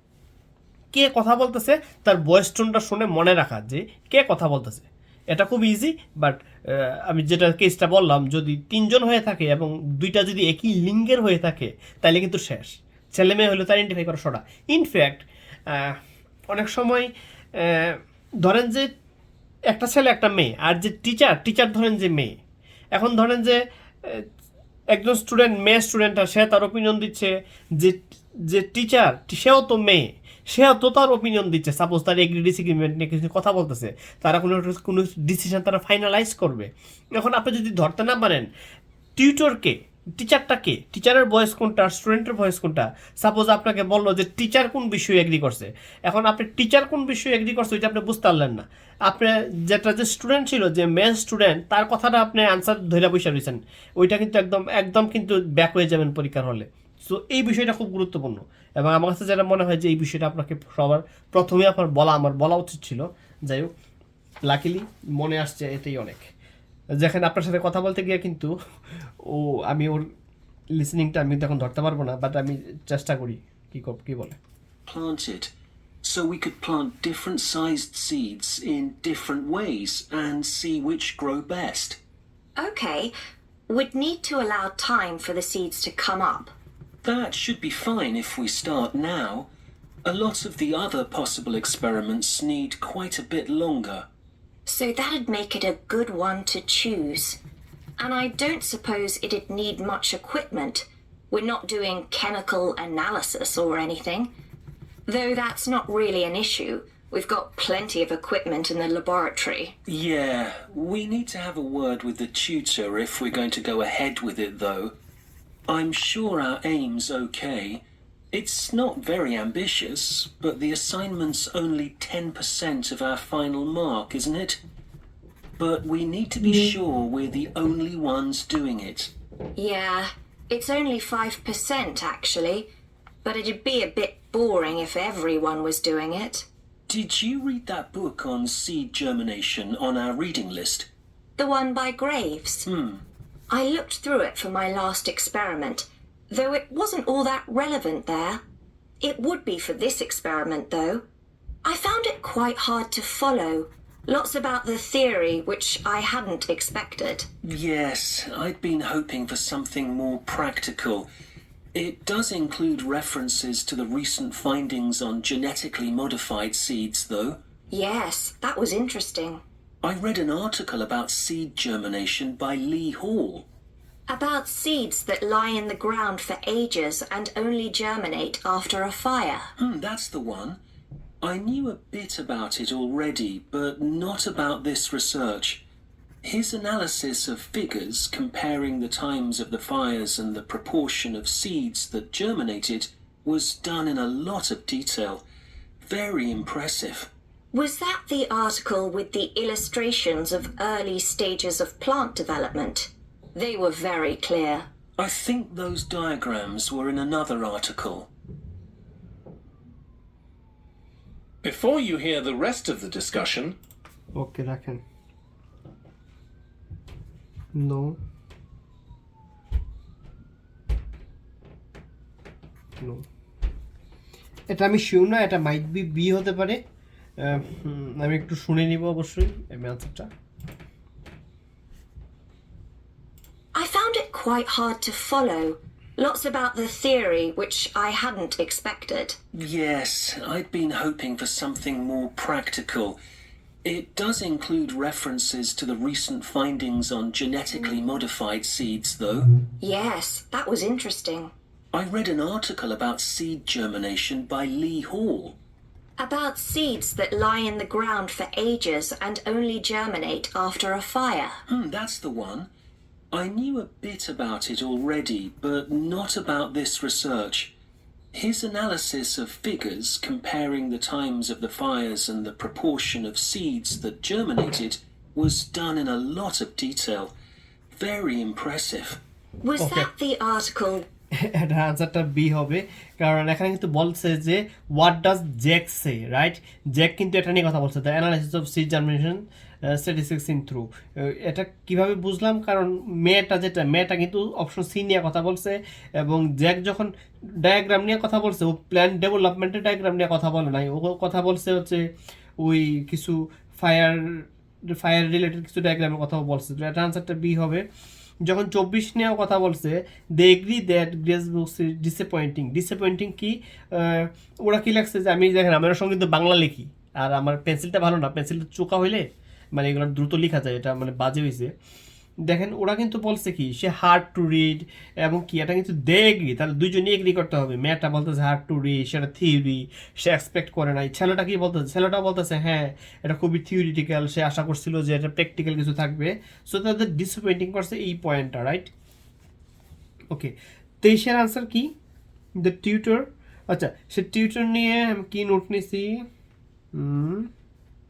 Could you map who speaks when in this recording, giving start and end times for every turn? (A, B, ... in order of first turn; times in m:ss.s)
0:00.9-0:16.0 A
0:16.5-0:18.9 A
0:19.7-0:22.4 A
0:23.0-0:24.2 A
0:24.9-0:38.5 A
0:39.2-1:03.7 A
1:04.5-1:06.3 A
1:07.0-1:08.5 A
1:09.3-1:10.0 A
1:10.8-1:14.4 A
1:14.9-1:15.5 B
1:16.0-1:22.0 B
1:22.6-1:23.1 C
1:23.7-1:26.5 C
1:27.0-1:29.5 B
1:30.0-1:34.1 B
1:34.7-1:37.4 C
1:38.0-1:44.3 C
1:45.1-1:49.7 C
1:49.9-1:55.0 B
1:55.7-2:04.6 B
2:05.6-2:09.1 B
2:09.6-2:12.7 C
2:13.2-2:16.4 C
2:16.9-2:20.9 B
2:21.4-2:22.7 C
2:22.7-2:23.0 B
2:23.5-2:28.4 C
2:29.0-2:31.0 C
2:31.6-2:37.3 C
2:37.4-2:41.1 B
2:41.7-2:47.4 B
2:47.7-2:49.4 C
2:49.8-2:53.5 B
2:54.1-2:59.5 C
2:59.6-3:00.6 B
3:01.2-3:05.6 B
3:06.2-3:15.2 B
3:15.8-3:17.1 B
3:17.5-3:24.7 C
3:25.0-3:28.1 B
3:31.4-3:33.6 D
3:34.2-3:34.8 A
3:37.5-3:38.0 A
3:44.5-3:46.6 A
3:47.2-3:50.1 A
3:53.5-3:59.2 C
3:59.3-4:03.0 B
4:03.6-4:09.3 B
4:09.6-4:11.3 C
4:11.7-4:15.4 B
4:16.0-4:21.4 C
4:21.5-4:22.5 B
4:23.1-4:27.5 B
4:28.1-4:37.1 B
4:37.7-4:39.0 B
4:39.4-4:40.9 C
4:39.6-4:39.9 A
4:41.2-4:56.9 A
4:57.4-5:01.8 A
5:02.4-5:07.6 A
5:08.3-5:19.0 A
5:19.6-5:21.5 A
5:22.3-5:38.7 A
5:40.1-5:41.7 A
5:42.4-5:46.0 A
5:46.8-5:47.3 A